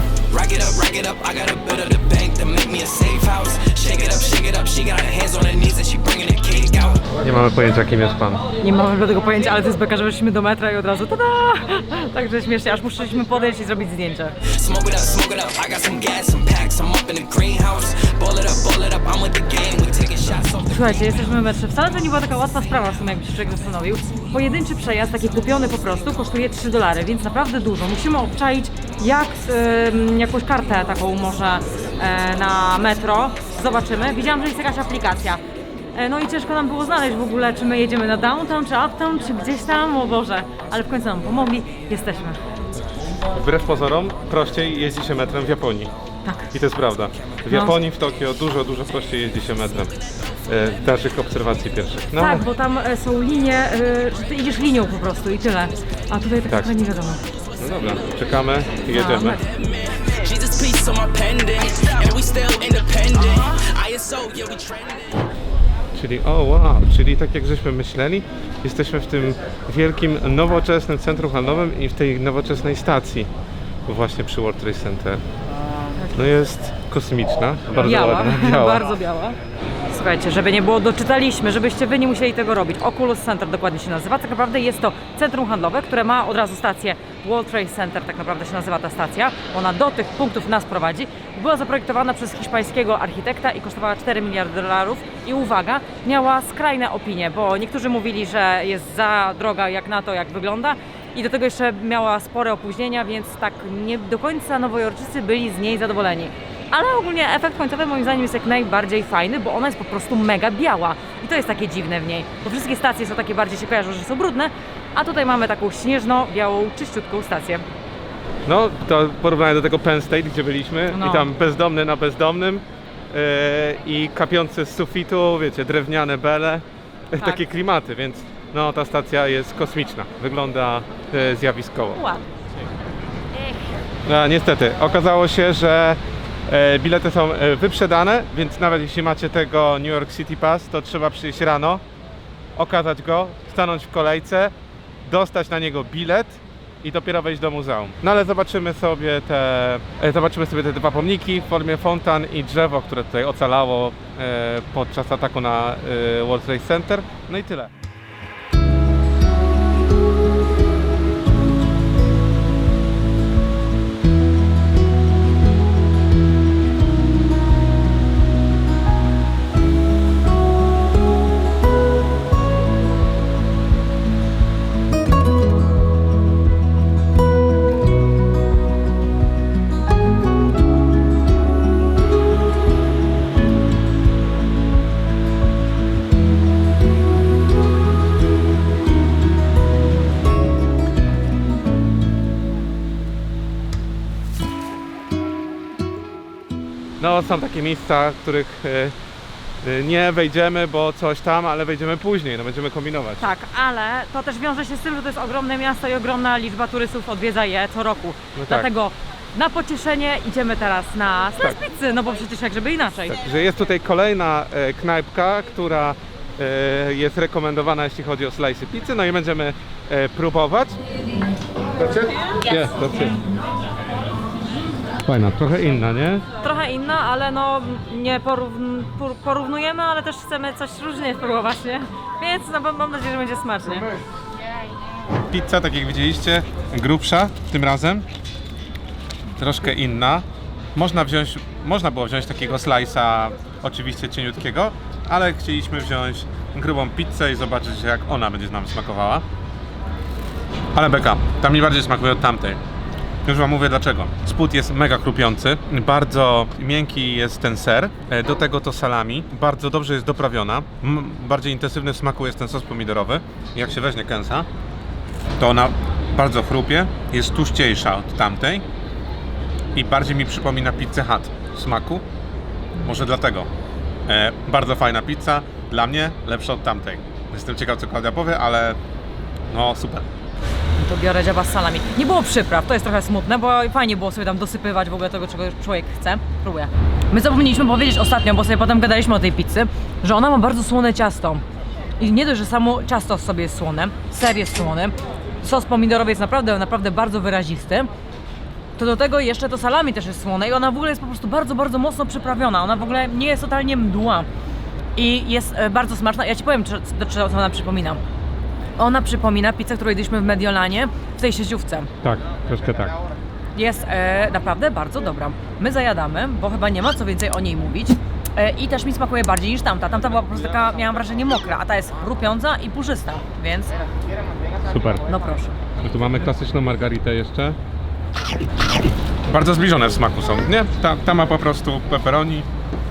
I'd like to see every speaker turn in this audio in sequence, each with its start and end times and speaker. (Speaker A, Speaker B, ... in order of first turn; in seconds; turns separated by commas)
Speaker A: 0.3-7.1, Speaker B: 7.2-8.4, Speaker C: 8.6-14.4, Speaker A: 14.4-21.1, Speaker C: 20.7-35.4, Speaker C: 35.9-42.4, Speaker B: 43.3-45.9, Speaker C: 46.2-46.5, Speaker B: 46.5-49.9, Speaker C: 47.5-47.8, Speaker B: 50.5-52.5, Speaker C: 52.1-57.2, Speaker B: 56.5-56.7, Speaker B: 57.6-59.4, Speaker C: 58.9-59.4, Speaker A: 59.5-65.2, Speaker B: 65.9-73.3, Speaker B: 73.8-75.2, Speaker B: 76.1-78.9, Speaker C: 77.8-79.4, Speaker C: 79.9-117.6, Speaker B: 118.5-132.0, Speaker C: 120.9-121.3, Speaker C: 127.2-127.4, Speaker C: 131.9-132.2, Speaker B: 134.0-141.8, Speaker B: 142.6-144.5, Speaker B: 145.0-157.7, Speaker B: 197.0-198.9, Speaker B: 199.6-203.3, Speaker C: 203.2-213.2, Speaker B: 208.3-208.7, Speaker B: 213.0-220.8, Speaker B: 221.8-223.2, Speaker B: 225.0-226.2, Speaker C: 226.4-233.9, Speaker B: 235.3-238.0, Speaker B: 239.4-249.2, Speaker B: 250.7-252.6, Speaker B: 253.2-264.5, Speaker B: 265.4-268.6, Speaker B: 269.7-272.0, Speaker B: 272.8-273.5, Speaker B: 274.1-278.8, Speaker B: 279.5-280.1, Speaker C: 280.8-291.4, Speaker C: 292.0-297.9, Speaker C: 298.8-304.3, Speaker C: 304.9-308.0, Speaker C: 308.8-311.9, Speaker B: 312.0-313.0, Speaker C: 313.5-323.7, Speaker B: 324.6-325.0, Speaker C: 325.1-325.5, Speaker B: 325.8-327.6, Speaker B: 329.2-332.5